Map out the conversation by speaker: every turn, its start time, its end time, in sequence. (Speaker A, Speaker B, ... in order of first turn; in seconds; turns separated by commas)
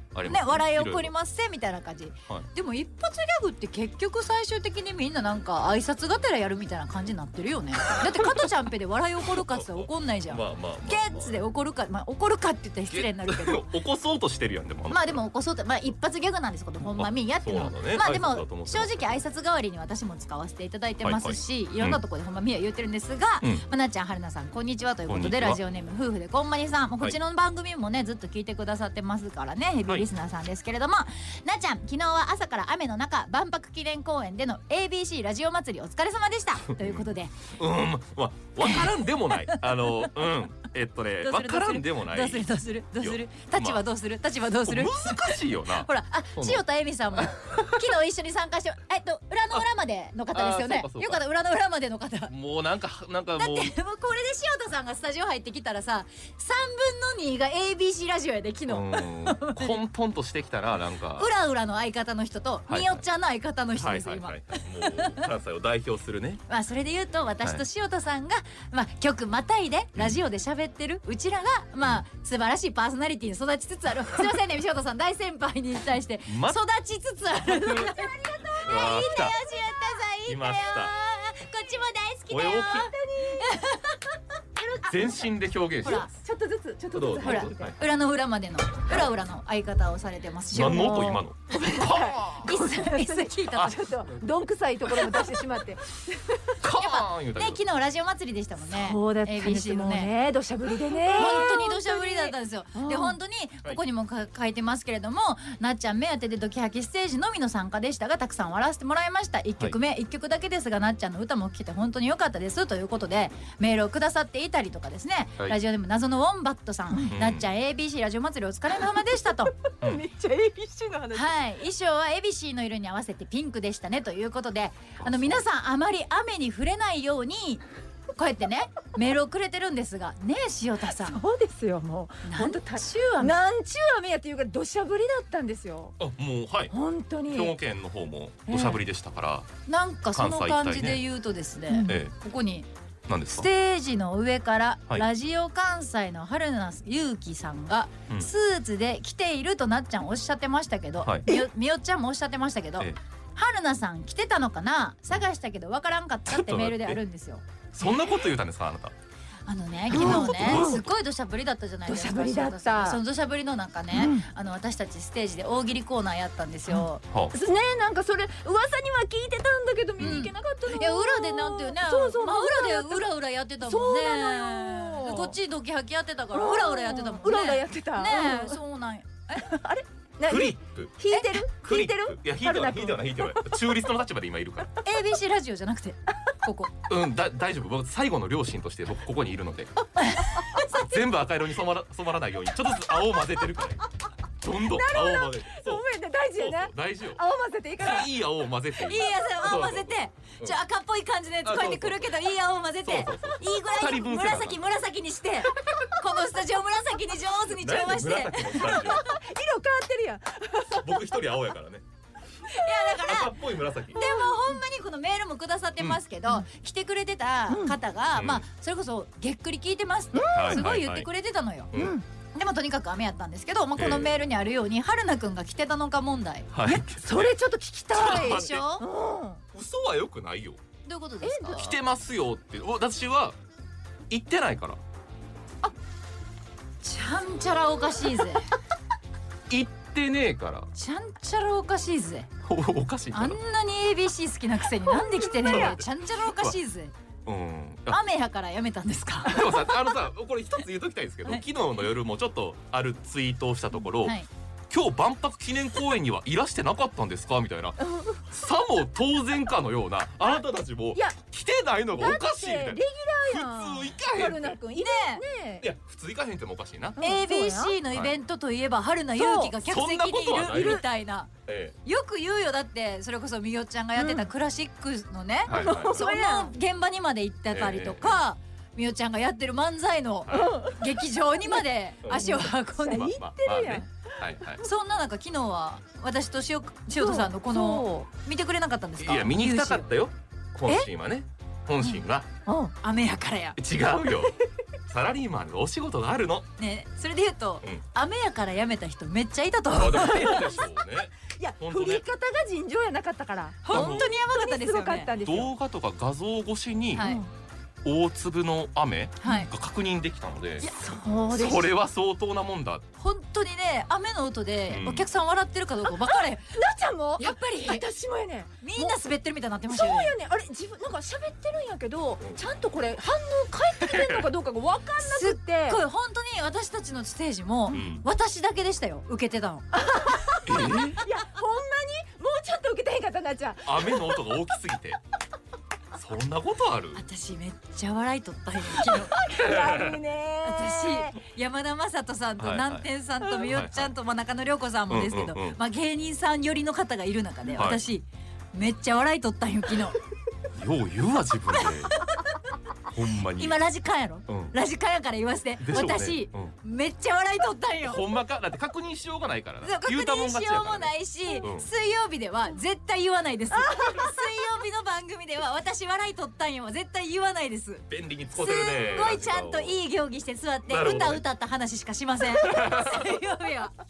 Speaker A: 0.1-1.1, Speaker B: 0.3-13.7, Speaker A: 9.3-11.4, Speaker A: 12.9-15.2, Speaker B: 14.9-37.3, Speaker A: 17.0-19.2, Speaker A: 21.0-22.0, Speaker A: 25.1-25.6, Speaker A: 36.8-42.5, Speaker B: 41.2-52.3, Speaker A: 43.0-43.8, Speaker A: 44.6-46.6, Speaker A: 47.1-47.7, Speaker A: 50.3-51.2, Speaker A: 52.3-53.7, Speaker B: 53.4-59.8, Speaker A: 58.7-61.3, Speaker B: 61.2-65.2, Speaker A: 62.7-63.0, Speaker A: 63.8-66.4, Speaker B: 66.5-84.1, Speaker A: 76.3-76.6, Speaker A: 77.5-77.9, Speaker C: 77.5-79.1, Speaker A: 78.6-79.3, Speaker A: 80.3-80.9, Speaker A: 82.3-82.9, Speaker C: 82.5-83.6, Speaker C: 84.8-85.2, Speaker A: 84.8-86.1, Speaker B: 85.8-86.1, Speaker C: 85.9-87.7, Speaker A: 86.9-87.8, Speaker B: 87.2-93.8, Speaker A: 90.5-91.4, Speaker C: 90.8-96.5, Speaker A: 93.5-95.6, Speaker A: 96.5-97.6, Speaker B: 96.6-100.1, Speaker C: 98.7-103.2, Speaker B: 101.1-119.5, Speaker A: 117.1-117.5, Speaker C: 119.8-121.3, Speaker B: 121.1-127.6, Speaker A: 125.0-125.4, Speaker B: 128.1-131.2, Speaker C: 130.8-135.9, Speaker B: 132.2-133.4, Speaker A: 136.0-139.5, Speaker C: 136.7-137.6, Speaker C: 138.5-138.8, Speaker B: 139.7-142.7, Speaker A: 140.1-141.0, Speaker C: 141.7-141.9, Speaker A: 141.9-142.1, Speaker A: 143.1-143.5, Speaker B: 143.3-157.4, Speaker A: 151.0-151.3, Speaker A: 156.3-157.0, Speaker A: 157.7-158.9, Speaker B: 159.5-167.0, Speaker A: 159.9-160.8, Speaker C: 159.9-160.8, Speaker C: 161.8-163.0, Speaker C: 163.9-164.2, Speaker C: 166.7-173.1, Speaker A: 170.0-170.3, Speaker B: 170.0-179.6, Speaker C: 173.6-175.3, Speaker C: 176.3-178.6, Speaker C: 179.4-183.4, Speaker A: 180.2-180.9, Speaker B: 181.1-181.4, Speaker A: 181.5-184.8, Speaker B: 184.8-186.7, Speaker A: 186.9-189.7, Speaker B: 190.0-190.6, Speaker C: 190.3-190.9, Speaker A: 190.6-193.8, Speaker A: 194.4-197.2, Speaker C: 194.5-198.1, Speaker A: 197.8-200.6, Speaker B: 198.8-208.7, Speaker A: 201.4-202.2, Speaker A: 202.8-204.6, Speaker A: 207.5-209.1, Speaker C: 208.4-211.2, Speaker A: 210.6-211.8, Speaker B: 212.4-213.3, Speaker A: 213.0-214.0, Speaker B: 213.9-221.7, Speaker C: 214.0-214.4, Speaker C: 217.5-217.8, Speaker A: 218.1-218.4, Speaker C: 220.1-220.6, Speaker A: 220.3-221.1, Speaker A: 221.7-222.0, Speaker C: 221.7-222.0, Speaker B: 222.3-226.5, Speaker A: 223.8-224.1, Speaker A: 226.5-227.4, Speaker C: 226.7-229.4, Speaker A: 227.9-228.7, Speaker B: 227.9-228.8, Speaker A: 229.5-230.6, Speaker B: 230.8-231.8, Speaker C: 231.2-231.6, Speaker A: 231.5-233.3, Speaker A: 234.1-234.8, Speaker B: 236.8-238.5, Speaker A: 239.5-240.7, Speaker B: 240.7-242.3, Speaker A: 242.4-243.4, Speaker B: 243.1-246.9, Speaker A: 245.4-246.5, Speaker A: 247.2-248.0, Speaker B: 247.9-249.8, Speaker A: 249.3-254.2, Speaker B: 254.0-254.3, Speaker A: 254.7-257.8, Speaker C: 257.9-258.2, Speaker A: 258.3-264.6, Speaker C: 261.9-265.7, Speaker B: 264.8-265.2, Speaker A: 265.6-267.0, Speaker C: 267.0-267.8, Speaker B: 267.0-271.3, Speaker A: 267.9-268.1, Speaker C: 269.2-269.5, Speaker A: 269.5-270.8, Speaker A: 271.5-271.8, Speaker B: 271.8-283.1, Speaker C: 274.0-274.3, Speaker A: 275.5-276.0, Speaker C: 275.5-276.5, Speaker A: 277.5-278.2, Speaker A: 280.3-280.6, Speaker C: 280.3-280.8, Speaker A: 282.0-282.3, Speaker C: 282.1-283.9, Speaker A: 282.9-284.6, Speaker B: 284.6-289.9, Speaker C: 286.9-288.0, Speaker A: 289.0-292.3, Speaker C: 292.5-292.7, Speaker B: 292.8-293.6, Speaker A: 293.6-294.4, Speaker A: 294.9-296.4, Speaker B: 296.6-300.6, Speaker A: 299.7-302.0, Speaker C: 300.0-300.8, Speaker C: 301.4-305.5, Speaker B: 303.6-305.1, Speaker A: 303.7-304.1, Speaker A: 305.2-307.1, Speaker B: 306.9-307.2, Speaker C: 307.0-307.3, Speaker A: 307.8-310.7, Speaker B: 309.2-309.5, Speaker C: 310.6-311.7, Speaker A: 311.3-312.8, Speaker B: 313.0-316.5, Speaker A: 314.7-315.1, Speaker C: 315.9-319.0, Speaker B: 317.2-317.8, Speaker B: 318.6-320.1, Speaker C: 319.7-325.8, Speaker A: 323.9-324.3, Speaker B: 325.0-329.7, Speaker A: 327.7-328.0, Speaker C: 329.8-334.4, Speaker A: 330.4-331.0, Speaker A: 333.6-335.0, Speaker A: 335.9-337.0, Speaker B: 336.9-339.2, Speaker C: 338.8-341.2, Speaker A: 339.4-340.0, Speaker B: 340.4-350.0, Speaker A: 342.4-342.9, Speaker A: 343.4-343.9, Speaker A: 344.9-345.6, Speaker A: 347.6-347.8, Speaker A: 350.6-352.0, Speaker B: 351.5-352.4, Speaker A: 352.9-353.6, Speaker B: 353.3-358.0, Speaker A: 354.3-354.5, Speaker A: 355.6-356.5, Speaker A: 357.8-361.7, Speaker B: 359.6-373.7, Speaker C: 363.6-364.1, Speaker A: 367.9-369.8, Speaker A: 370.7-371.2, Speaker A: 372.3-373.1